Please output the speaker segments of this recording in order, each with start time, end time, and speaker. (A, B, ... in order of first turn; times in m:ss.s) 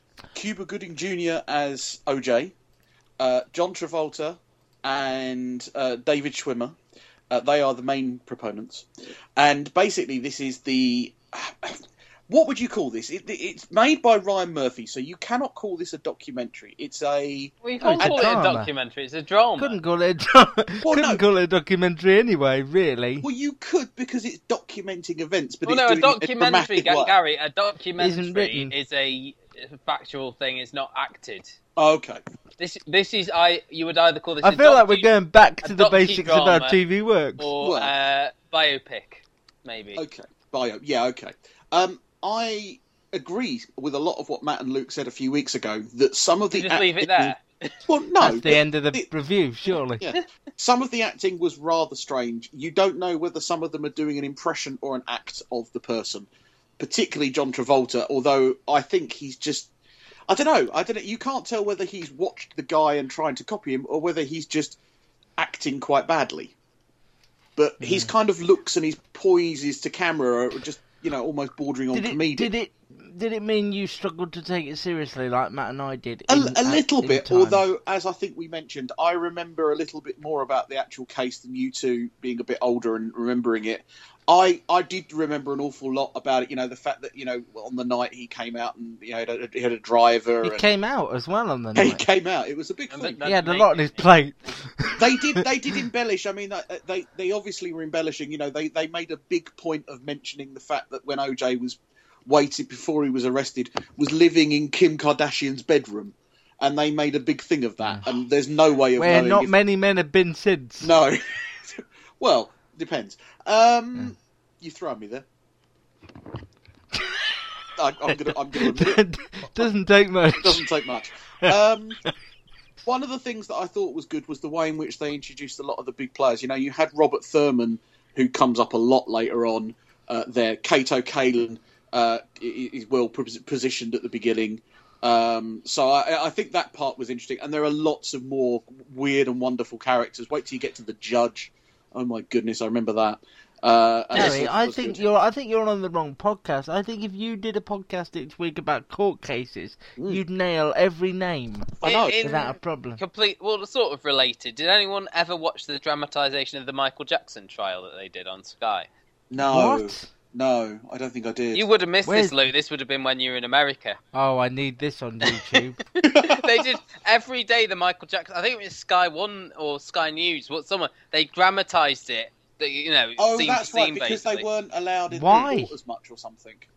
0:00.3-0:02.5 A
0:03.2-0:06.8 A
0:07.3-0:08.8 A
0:09.4-0:18.3 A
0:17.6-0:19.8 B
0:17.8-0:18.7 C
0:19.6-0:23.3 C
0:20.8-0:21.2 A
0:23.2-0:27.1 A
0:25.6-0:31.5 B
0:28.0-0:28.7 C
0:31.8-0:32.2 A
0:32.6-0:35.1 B
0:34.4-0:37.5 C
0:35.6-0:36.8 B
0:37.4-0:40.0 B
0:37.6-0:37.9 A
0:40.0-0:49.1 A
0:46.5-0:47.7 B
0:48.2-0:50.0 C
0:50.0-0:56.3 A
0:56.8-0:59.7 A
1:00.3-1:04.8 A
1:05.4-1:06.5 A
1:07.6-1:12.5 A
1:07.8-1:08.1 C
1:11.9-1:17.6 C
1:16.3-1:30.6 A
1:30.4-1:32.0 C
1:31.7-1:33.3 A
1:32.9-1:34.1 B
1:33.2-1:35.4 C
1:35.0-1:49.5 A
1:47.8-1:48.1 C
1:49.0-1:50.9 C
1:50.8-1:55.2 A
1:56.9-1:57.2 C
1:57.8-1:59.7 A
1:58.1-2:00.6 C
2:00.4-2:02.0 A
2:02.8-2:25.0 A
2:24.1-2:24.4 B
2:24.1-2:33.0 C
2:31.8-2:32.2 A
2:31.8-2:38.9 B
2:39.3-2:41.6 A
2:39.4-2:40.1 C
2:41.5-2:44.0 B
2:42.0-2:42.4 C
2:44.1-2:45.8 C
2:45.2-2:54.4 B
2:46.1-2:46.4 A
2:53.2-2:56.7 A
2:55.1-2:55.7 C